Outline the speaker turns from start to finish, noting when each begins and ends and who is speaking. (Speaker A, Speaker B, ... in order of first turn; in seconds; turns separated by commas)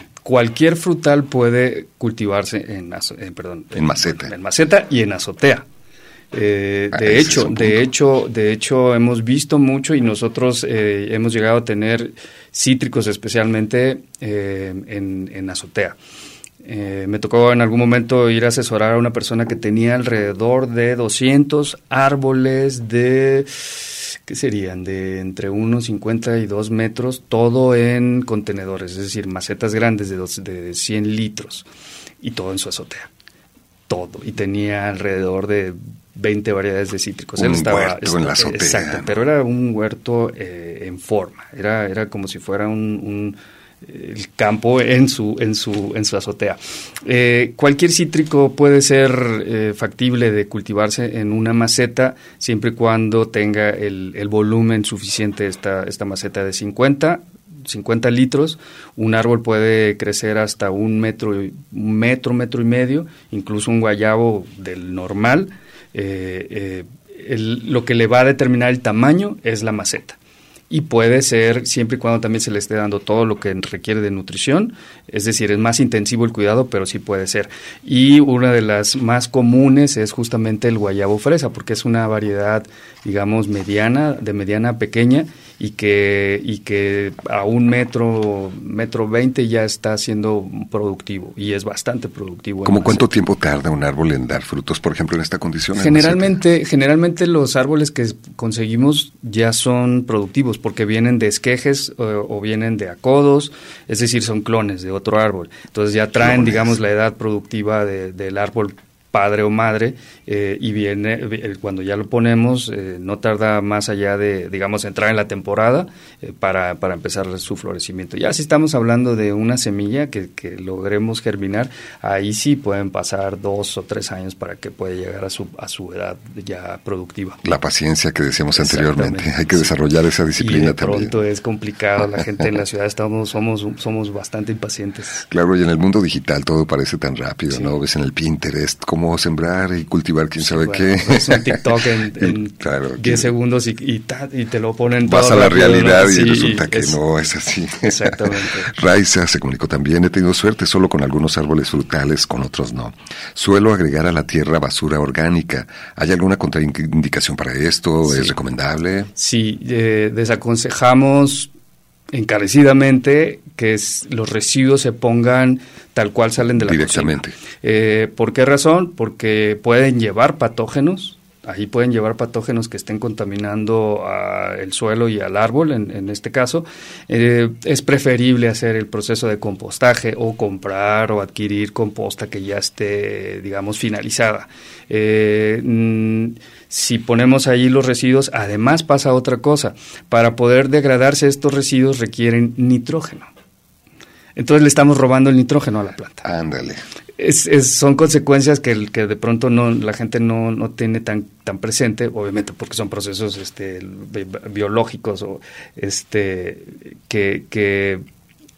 Speaker A: 0.2-5.7, Speaker B: 3.8-4.3, Speaker A: 6.3-16.0, Speaker B: 6.9-7.8, Speaker A: 16.6-31.7, Speaker A: 32.2-33.1, Speaker A: 33.9-70.2, Speaker B: 37.4-39.1, Speaker A: 70.7-93.0, Speaker B: 92.7-96.4, Speaker A: 95.8-127.4, Speaker B: 106.2-106.8, Speaker B: 127.4-131.2, Speaker A: 128.5-129.7, Speaker A: 130.4-135.2, Speaker B: 135.3-141.6, Speaker A: 140.4-147.0, Speaker B: 142.2-143.3, Speaker B: 145.1-159.1, Speaker A: 147.8-148.7, Speaker A: 158.1-158.3, Speaker A: 159.2-161.5, Speaker A: 162.1-193.3, Speaker B: 166.6-167.4, Speaker A: 194.4-196.3, Speaker B: 196.2-196.8, Speaker A: 197.2-208.0